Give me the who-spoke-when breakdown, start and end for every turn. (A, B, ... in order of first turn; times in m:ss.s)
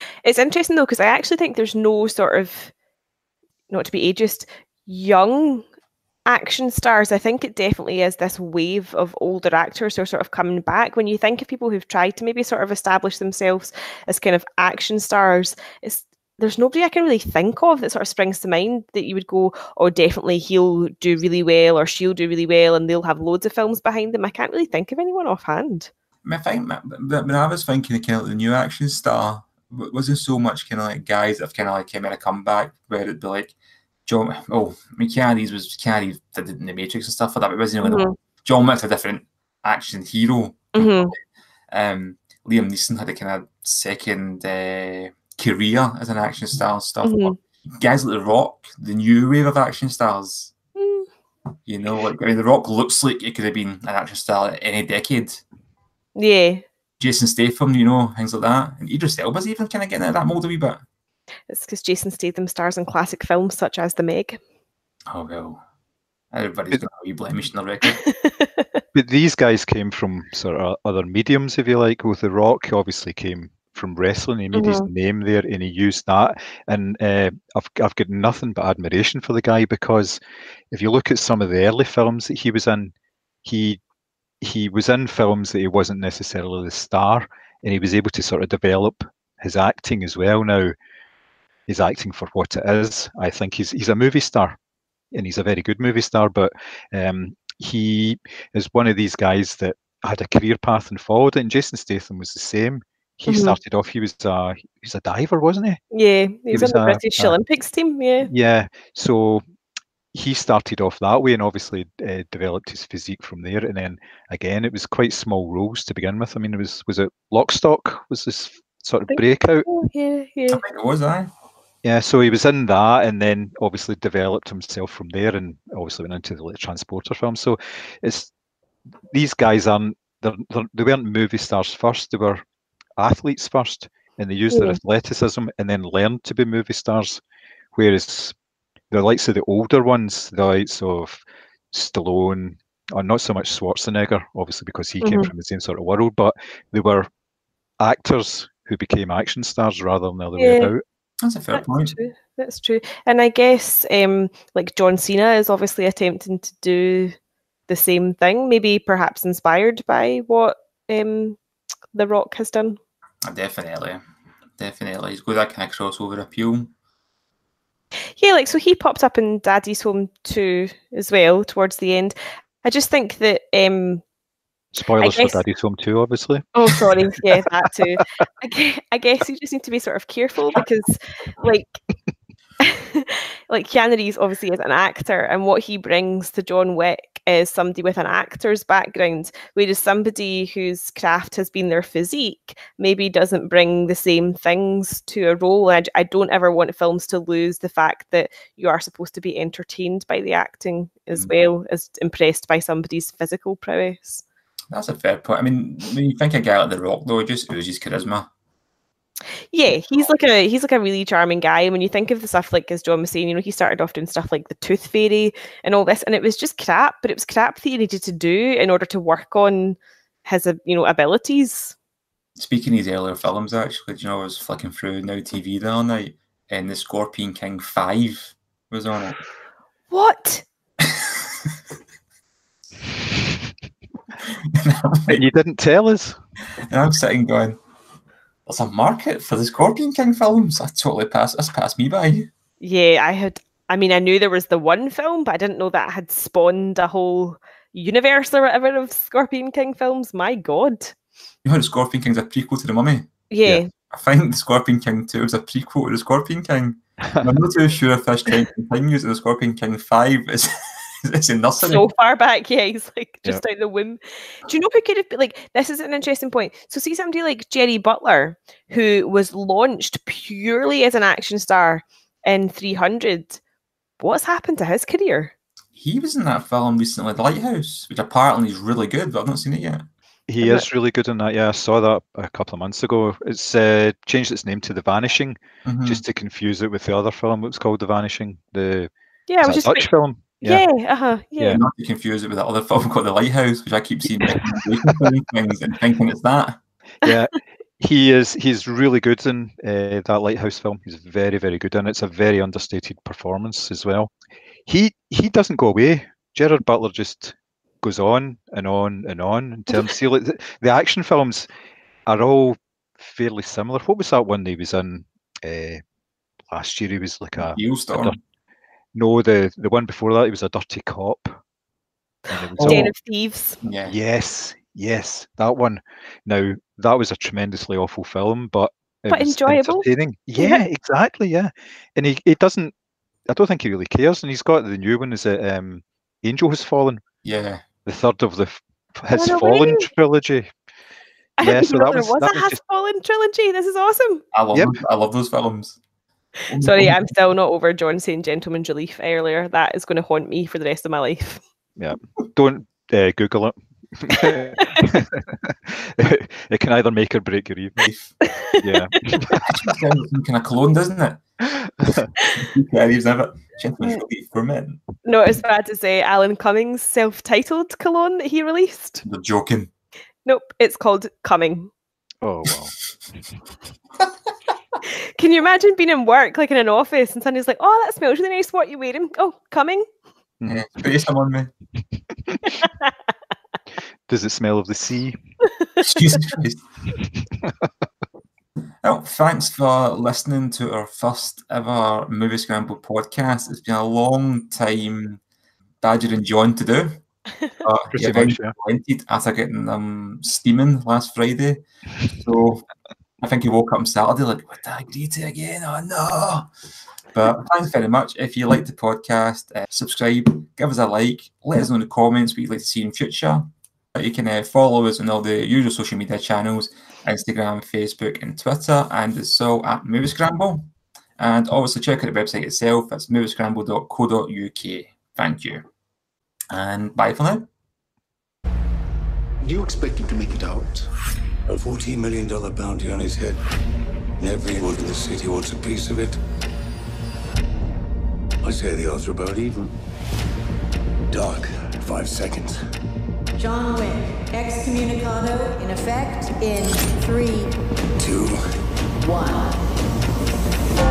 0:00.2-0:02.7 A
0:03.7-0:05.6 A
0:06.3-0:25.9 A
0:26.2-0:33.5 B
0:34.0-0:41.2 B
0:37.8-0:38.1 A
0:40.7-0:41.1 A
0:41.7-0:50.5 B
0:47.0-0:47.4 A
0:50.8-0:51.1 A
0:51.7-0:55.4 B
0:56.2-0:56.6 A
0:57.0-1:00.8 B
1:01.5-1:04.4 A
1:05.1-1:05.6 B
1:06.3-1:08.0 B
1:08.1-1:08.6 A
1:08.9-1:20.2 C
1:14.5-1:14.9 A
1:20.7-1:22.9 C
1:23.4-1:23.8 C
1:24.4-1:30.7 C
1:31.7-1:34.6 C
1:35.1-1:45.8 C
1:43.3-1:43.6 A
1:45.9-1:48.3 A
1:46.5-1:47.4 C
1:48.2-1:49.4 C
1:50.1-1:59.6 C
1:59.1-2:00.6 A
2:00.5-2:01.3 B
2:01.8-2:08.3 C
2:09.1-2:12.4 C
2:13.0-2:17.2 C
2:14.5-2:14.8 A
2:17.7-2:18.3 C
2:18.9-2:27.1 C
2:25.0-2:25.3 A
2:27.8-2:30.8 C
2:30.4-2:30.7 A
2:31.2-2:32.0 B
2:31.5-2:37.1 A
2:37.7-2:41.4 A
2:41.9-2:42.8 A
2:43.2-2:44.0 B
2:44.6-2:46.7 B
2:48.2-2:54.0 A
2:54.7-2:56.4 C
2:55.0-2:55.4 A
2:56.5-3:01.7 A
3:02.6-3:24.2 A
3:24.7-3:28.3 B
3:29.5-3:41.7 A
3:42.4-3:49.2 B
3:49.9-3:50.4 A
3:54.5-3:55.2 B
3:55.1-3:56.2 C
3:56.7-3:57.6 B
3:58.5-4:02.3 B
4:02.6-4:10.9 A
4:11.4-4:13.1 B
4:13.3-4:13.7 A
4:13.9-4:21.8 B
4:21.6-4:33.4 A
4:34.0-4:35.3 A
4:35.8-4:39.8 B
4:40.3-4:48.9 C
4:45.6-4:46.0 B
4:49.3-4:49.9 A
4:49.4-4:50.6 C
4:50.4-4:51.6 A
4:51.4-4:51.6 C
4:51.5-4:56.6 B
4:57.0-5:04.1 C
5:04.6-5:11.5 C
5:12.0-5:15.8 C
5:16.5-5:18.2 C
5:17.4-5:18.2 B
5:18.9-5:21.4 C
5:22.3-5:22.9 C
5:22.6-5:22.9 B
5:22.6-5:23.6 A
5:23.6-5:23.9 B
5:23.8-5:32.7 C
5:29.1-5:29.8 A
5:30.4-5:30.6 A
5:33.3-5:37.0 C
5:37.2-5:37.6 B
5:37.8-5:40.5 C
5:39.1-5:39.9 A
5:41.4-5:44.2 A
5:41.4-5:42.6 C
5:44.3-5:45.8 B
5:46.5-5:47.0 B
5:46.6-5:51.4 A
5:51.8-5:57.9 C
5:57.8-5:58.1 B
5:58.2-5:59.2 A
5:58.6-5:59.4 C
5:59.3-6:01.4 B
6:01.8-6:02.1 C
6:02.4-6:04.8 B
6:05.0-6:09.0 A
6:09.0-6:09.7 B
6:10.2-6:11.7 A
6:12.2-6:12.7 C
6:15.2-6:19.8 A
6:20.5-6:21.5 B
6:22.4-6:22.9 A
6:24.1-6:25.2 C
6:25.8-6:26.6 B
6:27.4-6:27.7 C
6:28.8-6:35.2 B
6:35.8-6:37.0 B
6:37.6-6:42.6 B
6:37.9-6:38.5 C
6:43.2-6:46.5 B
6:47.1-7:05.6 B
7:06.5-7:07.5 B
7:11.5-7:13.4 D
7:14.2-7:16.2 D
7:18.4-7:19.7 D
7:21.1-7:22.6 D
7:23.4-7:27.5 E
7:28.0-7:28.4 D
7:29.0-7:29.6 E